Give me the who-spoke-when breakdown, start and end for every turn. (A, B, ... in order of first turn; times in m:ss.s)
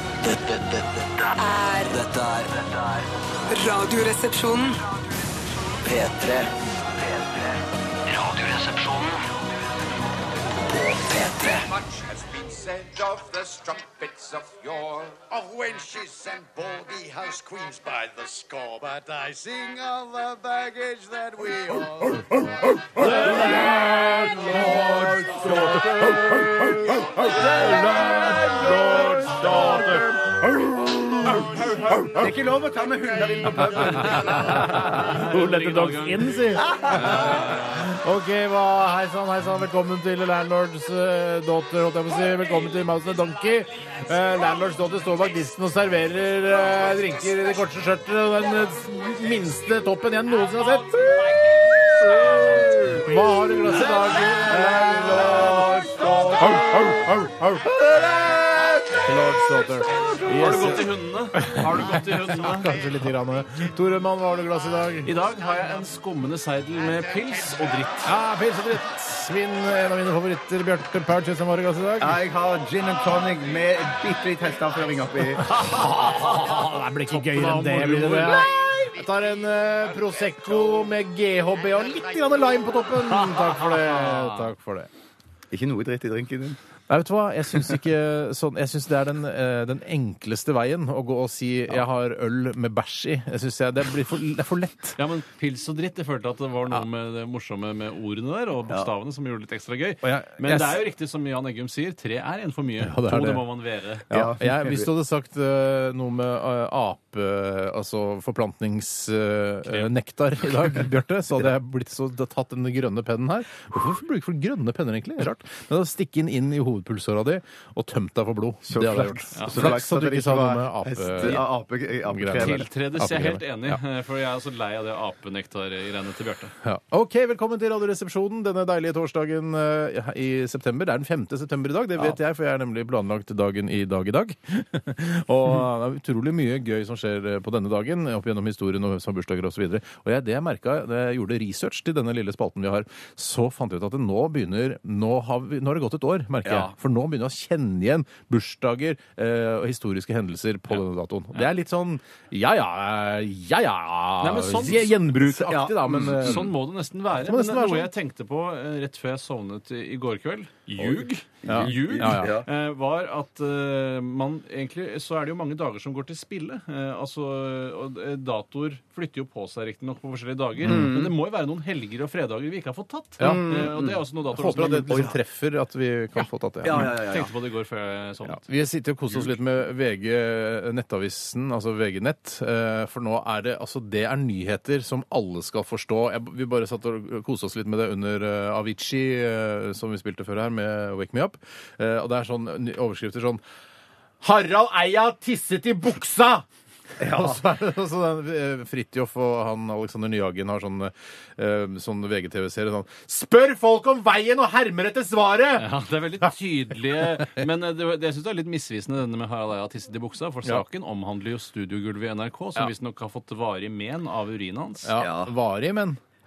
0:00.2-0:01.3 A
0:01.4-0:02.0 B
0:01.9-0:03.1 A
0:03.5-0:05.0 B
0:05.8-0:09.2 A
0:10.6-0:11.7 A
0:11.9-0:21.9 C
0:15.7-0:22.4 D
0:22.9-0:32.0 D
0:23.0-0:23.7 E
0:23.5-0:23.8 C
0:24.3-0:25.9 E
0:27.2-0:30.0 E
0:27.2-0:30.1 F
0:32.1-0:35.1 E
0:33.8-0:51.2 D
0:33.9-0:37.9 F
0:36.6-0:37.3 E
0:52.0-0:57.8 D
0:54.5-0:56.9 E
0:57.7-0:58.8 E
0:59.0-1:05.1 D
1:00.3-1:02.8 F
1:05.0-1:08.2 F
1:08.0-1:12.2 D
1:12.0-1:15.5 E
1:15.4-1:24.9 D
1:15.9-1:16.6 F
1:17.1-1:18.5 F
1:23.0-1:24.5 F
1:25.5-1:26.6 E
1:26.9-1:35.0 D
1:35.0-1:44.0 F
1:40.0-1:40.8 D
1:42.8-1:43.5 D
1:44.1-2:01.4 D
1:44.1-1:44.9 E
1:58.7-2:02.6 E
1:59.4-1:59.8 F
2:02.1-2:03.8 D
2:02.3-2:06.5 F
2:06.6-2:36.4 D
2:34.2-2:35.0 F
2:35.4-2:36.4 E
2:36.2-2:55.1 F
2:37.2-2:37.9 D
2:41.4-2:42.5 E
2:41.4-2:42.3 D
2:50.6-2:51.1 E
2:53.2-2:53.5 D
2:53.2-2:54.0 E
2:54.3-2:56.9 D
2:54.9-2:55.2 E
2:56.6-2:57.3 E
2:56.7-2:58.4 F
2:58.3-3:13.4 D
3:14.2-3:16.4 D
3:17.0-3:17.4 E
3:17.0-3:25.7 D
3:25.6-3:34.9 F
3:34.8-3:36.0 D
3:35.0-3:35.3 E